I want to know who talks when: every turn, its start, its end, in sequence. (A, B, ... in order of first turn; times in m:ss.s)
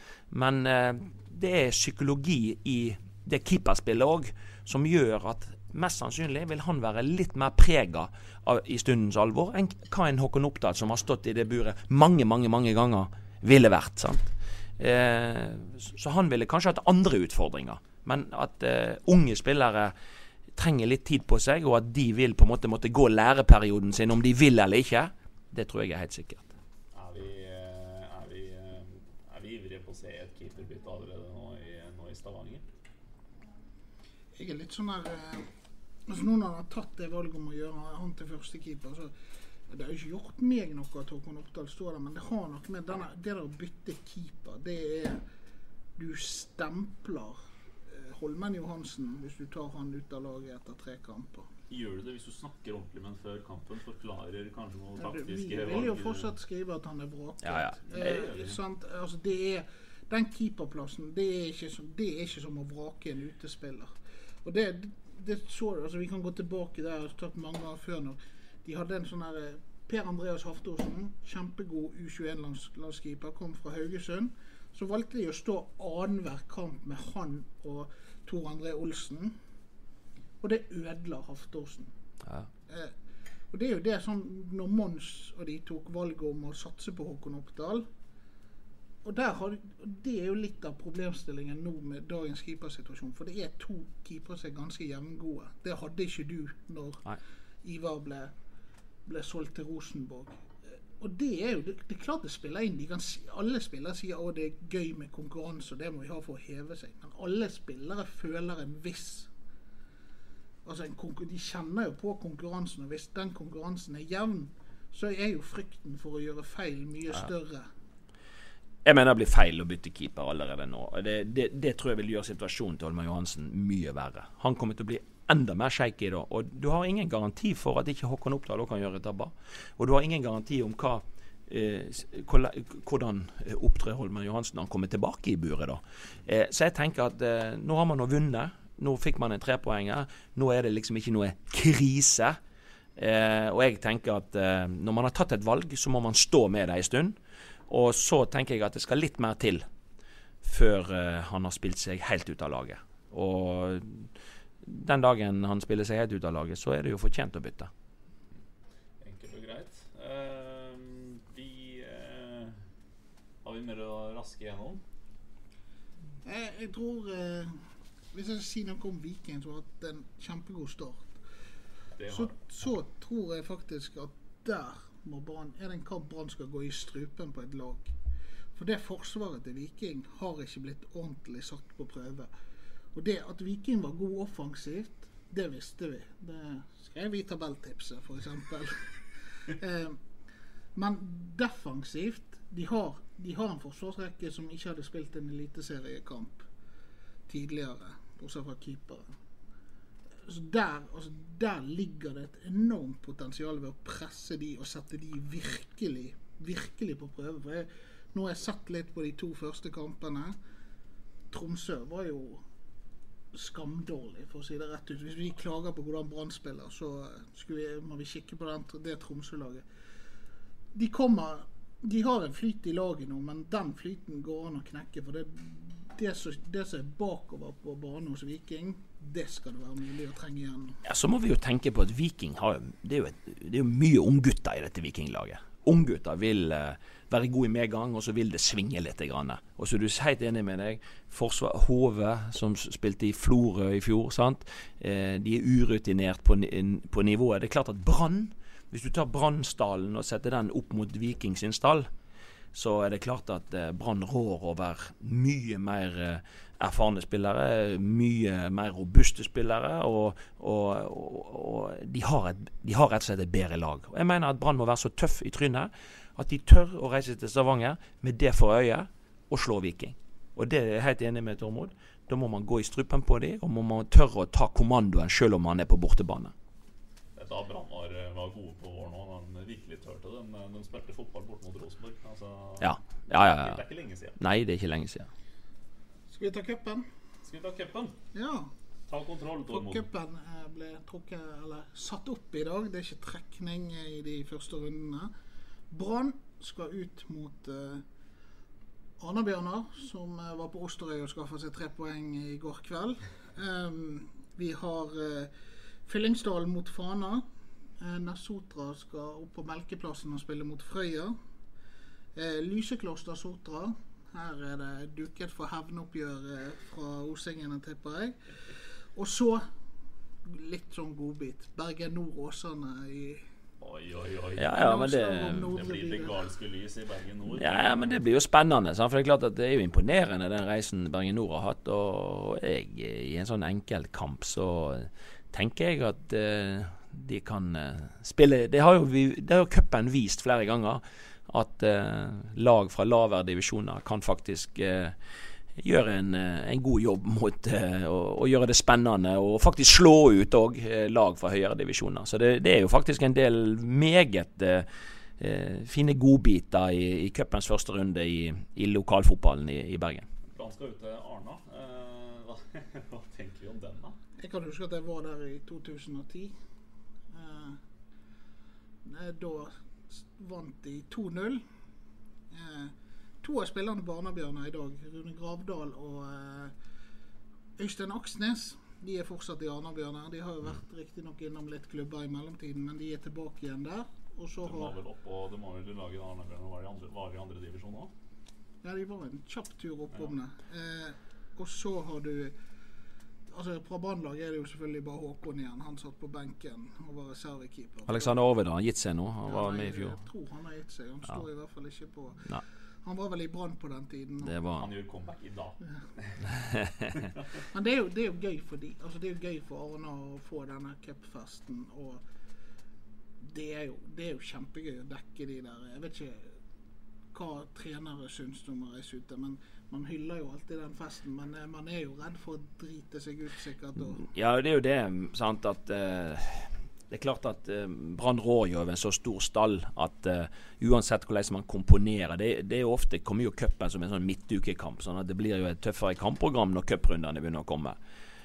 0:00.3-0:19.9 A
0:20.5-0:26.6 A
0:26.9-0:32.6 B
0:34.4-0:35.4 C
0:36.1-0:39.1 C
0:39.7-0:45.2 C
0:46.0-0:47.4 C
0:47.9-0:51.5 C
0:51.7-0:56.3 B
0:55.0-1:19.3 C
0:57.4-0:57.8 A
0:57.9-0:58.6 B
1:20.4-1:21.9 C
1:22.7-1:22.9 C
1:23.5-1:27.9 C
1:29.0-1:37.0 C
1:37.6-1:38.3 C
1:39.0-1:40.4 C
1:41.0-1:49.3 C
1:50.6-1:57.7 C
1:58.8-2:22.4 A
2:23.0-2:27.2 A
2:27.7-2:29.6 A
2:30.4-2:34.1 A
2:34.6-2:37.7 A
2:39.0-2:42.6 B
2:43.4-2:44.8 B
2:46.2-2:47.6 C
2:48.1-2:51.2 C
2:52.0-2:52.3 B
2:52.1-2:57.9 C
2:58.6-3:02.3 C
3:02.9-3:08.9 C
3:09.4-3:10.0 C
3:10.7-3:16.5 C
3:17.3-3:19.0 C
3:20.2-3:30.4 C
3:31.3-3:32.4 C
3:33.3-3:39.6 C
3:40.7-3:50.8 C
3:50.8-4:11.9 A
4:12.5-4:36.3 A
4:37.2-4:44.2 B
4:42.6-4:43.6 A
4:44.2-4:45.1 A
4:46.1-4:46.8 C
4:47.2-4:48.0 B
4:48.1-4:48.5 C
4:48.9-4:49.8 B
4:49.5-4:55.1 C
4:55.7-4:57.8 C
4:59.0-5:05.3 C
5:05.8-5:07.2 C
5:07.8-5:11.2 C
5:12.1-5:18.1 C
5:18.9-5:19.4 C
5:20.2-5:23.2 C
5:23.6-5:24.6 B
5:24.4-5:25.5 A
5:24.5-5:26.1 C
5:25.4-5:28.0 B
5:27.3-5:45.0 A
5:45.6-5:54.7 A
5:55.2-6:00.0 A
6:00.3-6:04.0 B
6:04.2-6:06.3 C
6:07.1-6:07.6 C
6:08.8-6:11.4 C
6:12.3-6:16.5 C
6:17.6-6:24.8 C
6:24.4-6:27.9 B
6:28.6-6:32.3 C
6:33.3-6:38.1 C
6:37.9-6:40.0 A
6:39.2-6:42.2 C
6:42.8-6:44.3 C
6:44.2-6:44.7 A
6:44.6-6:46.2 B
6:46.3-6:46.9 A
6:47.5-6:52.0 C
6:53.2-6:56.3 C
6:57.1-7:04.0 C
7:04.0-7:17.8 A